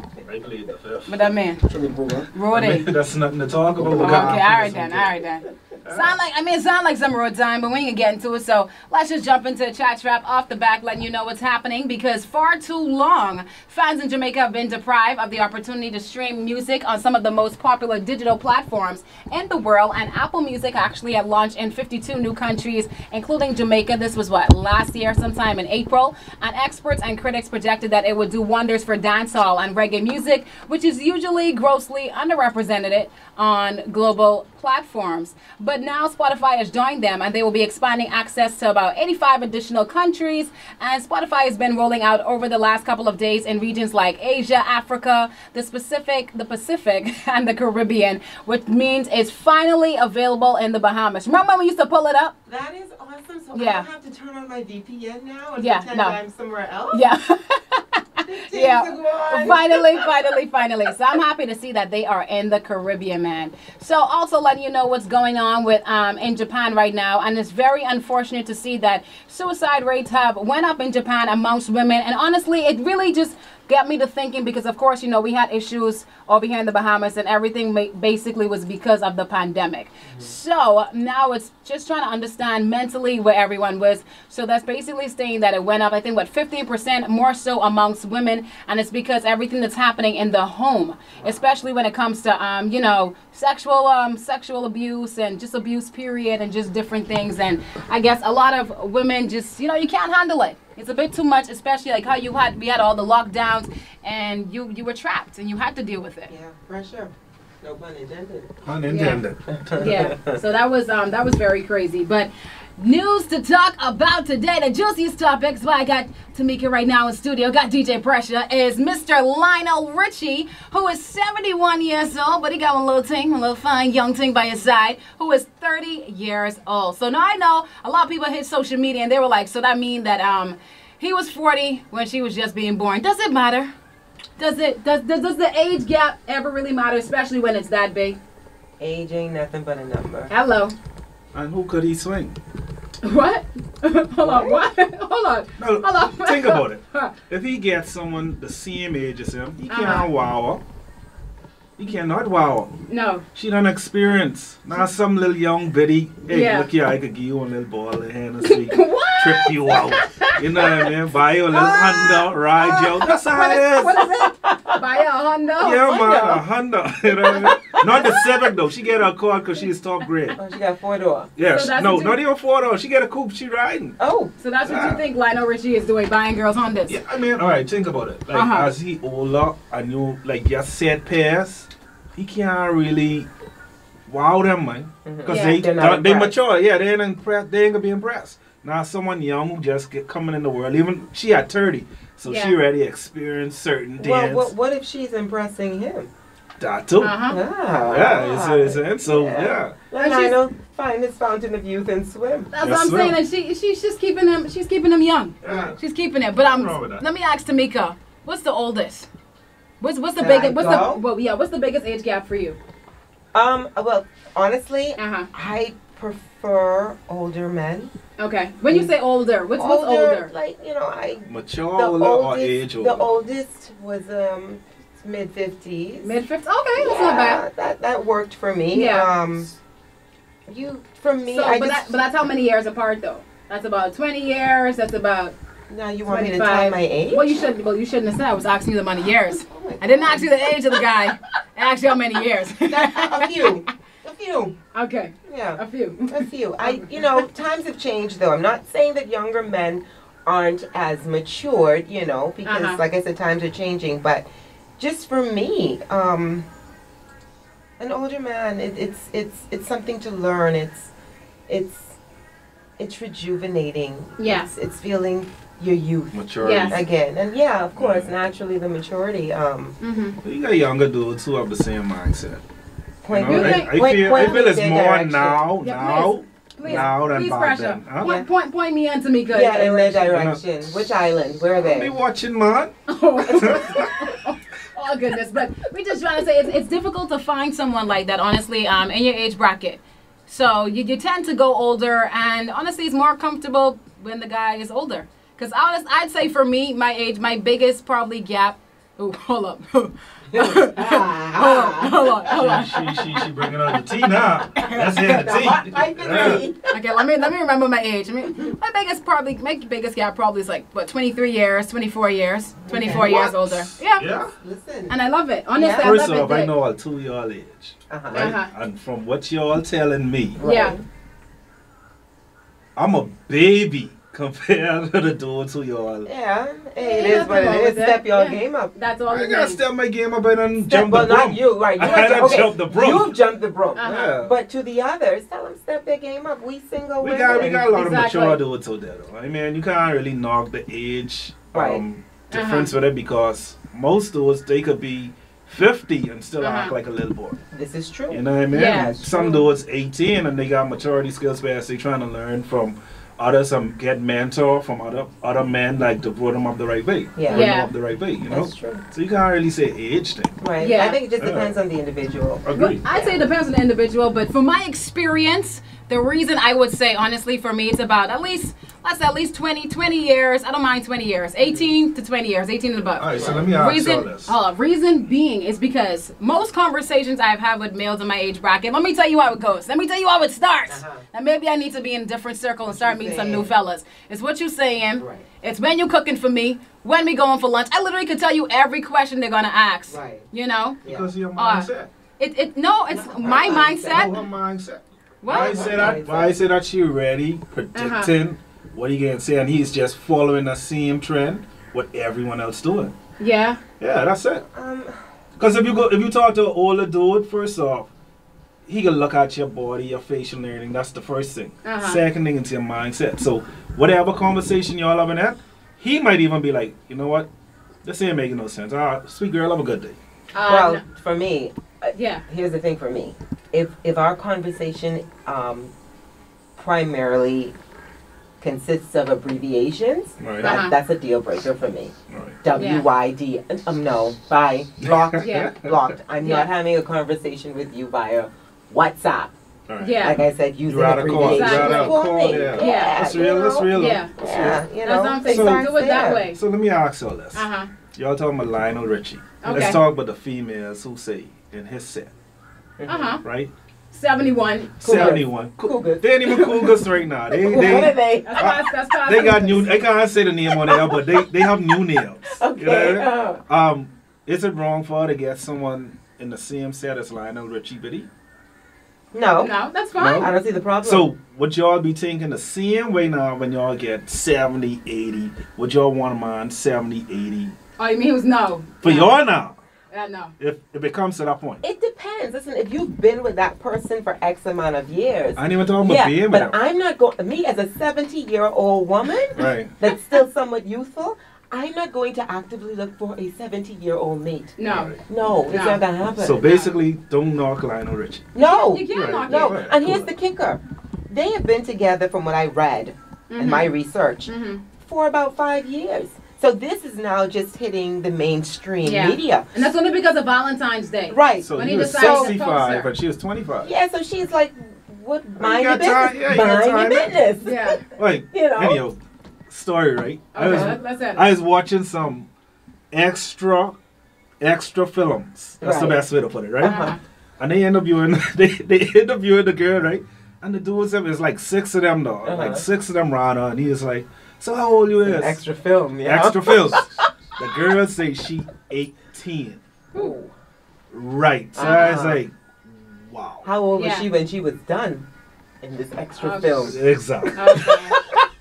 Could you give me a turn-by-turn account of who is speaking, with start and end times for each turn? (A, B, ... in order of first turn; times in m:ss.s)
0:00.2-0:01.9 A
0:01.1-0:01.6 B
0:01.8-0:02.2 C
0:02.3-0:02.9 B
0:02.5-0:05.1 A
0:03.9-0:52.3 B
0:05.8-0:06.1 A
0:52.5-0:57.1 C
0:53.5-0:53.9 B
0:55.6-0:56.2 B
0:56.9-1:46.3 B
0:58.2-1:00.1 C
1:46.3-1:48.6 C
1:48.6-1:49.9 A
1:48.9-1:49.2 B
1:49.5-1:50.4 C
1:49.8-2:13.7 B
2:14.4-2:18.2 B
2:18.8-2:20.3 C
2:20.3-2:20.7 B
2:21.3-2:22.4 A
2:23.0-2:27.1 B
2:24.2-2:24.6 C
2:25.6-2:30.6 A
2:29.7-2:30.1 B
2:31.8-2:32.8 A
2:32.9-2:33.2 B
2:33.4-2:44.0 A
2:36.3-2:36.7 B
2:38.4-2:40.9 B
2:41.5-2:45.9 B
2:44.1-2:44.8 C
2:45.6-2:50.4 A
2:45.6-2:46.4 C
2:47.2-2:48.3 C
2:50.4-2:51.3 C
2:51.4-2:54.0 A
2:51.5-2:52.2 B
2:54.0-2:54.3 C
2:54.4-2:57.0 B
2:54.6-2:55.0 A
2:56.9-3:03.3 A
2:58.3-2:58.7 B
3:04.1-3:14.5 A
3:05.0-3:06.3 C
3:05.3-3:05.6 B
3:12.2-3:12.6 B
3:14.0-3:16.1 C
3:16.6-3:17.2 A
3:17.0-3:17.4 B
3:17.3-3:22.5 C
3:17.9-3:19.8 A
3:20.0-3:20.4 B
3:22.5-3:29.1 B
3:22.6-3:23.2 A
3:25.4-3:25.8 A
3:26.4-3:27.0 A
3:29.8-3:32.6 B
3:30.2-3:31.0 C
3:33.3-3:37.9 C
3:35.0-3:35.3 B
3:38.2-3:40.3 B
3:39.6-3:46.1 C
3:41.3-3:43.1 A
3:46.0-3:47.4 B
3:46.8-3:49.5 C
3:48.7-3:49.1 B
3:50.5-3:52.0 C
3:51.3-3:55.4 B
3:55.7-3:57.4 C
3:56.1-4:03.6 B
3:59.4-4:01.0 C
4:02.6-4:04.6 C
4:04.7-4:06.9 B
4:05.3-4:14.3 C
4:12.4-4:12.8 B
4:14.8-4:16.5 C
4:17.8-4:20.9 C
4:21.5-4:22.0 C
4:22.8-4:29.8 C
4:24.2-4:24.5 B
4:26.1-4:26.9 A
4:26.4-4:26.8 B
4:27.8-4:28.1 A
4:29.8-4:30.2 B
4:30.2-4:32.4 A
4:33.0-4:35.5 C
4:33.1-4:38.1 A
4:33.3-4:33.8 B
4:35.6-4:40.1 B
4:36.6-4:36.9 C
4:38.0-4:38.3 C
4:39.3-4:41.9 C
4:40.1-4:40.6 A
4:41.6-4:42.7 A
4:42.9-5:03.7 B
4:43.2-4:44.2 A
5:00.3-5:02.3 C
5:02.2-5:06.5 A
5:04.6-5:06.8 C
5:06.7-5:14.0 B
5:12.7-5:13.3 C
5:12.7-5:14.3 A
5:14.4-5:15.0 C
5:14.9-5:16.5 B
5:15.6-5:16.0 C
5:15.8-5:20.4 A
5:17.9-5:18.4 C
5:18.1-5:18.5 B
5:20.4-5:20.8 C
5:20.4-5:20.8 B
5:22.8-5:26.1 A
5:26.0-5:28.7 C
5:26.8-5:29.6 B
5:29.1-5:33.2 A
5:30.7-5:37.7 C
5:31.8-5:32.5 B
5:33.8-5:34.2 B
5:33.8-5:34.4 A
5:37.0-5:47.4 A
5:37.4-5:38.4 B
5:41.5-5:41.8 C
5:42.3-5:42.7 B
5:46.4-5:46.7 B
5:47.5-5:49.5 C
5:48.1-6:00.4 A
5:48.5-5:49.0 B
5:57.2-5:57.5 C
5:57.3-5:57.7 B
5:58.3-5:58.8 C
6:00.4-6:03.2 C
6:00.6-6:01.0 B
6:01.2-6:01.6 A
6:02.4-6:02.8 A
6:02.5-6:30.8 B
6:11.4-6:11.7 C
6:13.0-6:14.3 A
6:13.1-6:13.5 C
6:20.7-6:21.0 C
6:22.7-6:23.5 C
6:25.0-6:25.3 C
6:29.9-6:30.3 C
6:30.8-6:31.1 C
6:30.8-6:31.9 A
6:31.4-6:34.2 B
6:32.9-6:34.2 C
6:33.9-6:43.0 A
6:35.2-6:35.7 B
6:35.3-6:36.4 C
6:37.8-6:38.1 B
6:43.2-6:43.6 B
6:43.8-6:44.5 A
6:44.5-6:45.0 C
6:45.4-6:47.9 A
6:48.7-6:57.3 A
6:51.6-6:52.0 B
6:57.8-7:00.0 A
7:00.3-7:00.8 B
7:00.4-7:05.7 C
7:01.9-7:02.2 B
7:06.6-7:07.6 C
7:08.4-7:19.4 C
7:10.2-7:10.6 A
7:10.4-7:10.7 B
7:12.1-7:12.4 A
7:12.6-7:12.8 B
7:14.8-7:15.8 A
7:15.2-7:15.5 B
7:16.2-7:16.5 B
7:19.7-7:20.1 A
7:19.8-7:20.2 B
7:20.0-7:26.3 C
7:20.7-7:24.7 A
7:21.2-7:22.0 B
7:22.6-7:23.0 B
7:23.7-7:24.2 B
7:24.8-7:26.4 B
7:25.3-7:32.1 A
7:27.3-7:27.7 B
7:29.4-7:29.8 B
7:32.8-7:33.2 C
7:32.9-7:33.2 B
7:33.2-7:33.5 A
7:33.9-7:35.2 B
7:34.8-7:48.1 A
7:34.8-7:36.8 C
7:36.3-7:36.7 B
7:37.4-7:38.6 C
7:37.5-7:39.8 B
7:40.6-7:41.4 C
7:42.4-7:43.4 C
7:49.1-7:49.5 C
7:49.4-7:50.3 B
7:50.0-7:57.6 A
7:50.2-7:51.1 C
7:57.8-7:59.2 B
7:58.8-7:59.6 A
7:59.9-8:00.3 B
8:00.4-8:01.6 A
8:01.6-8:14.6 C
8:05.4-8:06.6 A
8:09.3-8:09.8 A
8:14.6-8:15.0 B
8:14.7-8:15.0 A
8:15.1-8:16.5 C
8:15.5-8:15.8 B
8:16.2-8:18.3 A
8:16.4-8:16.8 B
8:18.4-8:24.3 C
8:18.4-8:19.6 B
8:18.9-8:20.1 A
8:23.3-8:23.7 B
8:24.3-8:24.6 B
8:24.8-8:29.6 C
8:28.8-8:32.9 B
8:31.1-8:32.3 C
8:31.4-8:33.7 A
8:33.6-8:38.8 C
8:35.4-8:37.2 A
8:37.4-8:37.8 B
8:38.0-8:42.3 A
8:40.3-8:41.3 B
8:40.4-8:40.8 C
8:42.9-8:43.8 A
8:44.4-8:46.8 A
8:45.6-8:46.0 C
8:46.6-8:47.0 C
8:46.6-8:47.0 B
8:47.4-8:55.4 A
8:52.2-8:52.7 C
8:55.0-8:57.1 C
8:56.0-8:59.6 A
8:59.9-9:00.3 C
9:00.9-9:03.5 A
9:01.5-9:02.2 C
9:01.6-9:02.0 B
9:03.4-9:05.1 C
9:03.7-9:04.1 B
9:05.6-9:08.2 C
9:06.2-9:06.6 B
9:06.5-9:07.7 A
9:07.4-9:08.0 B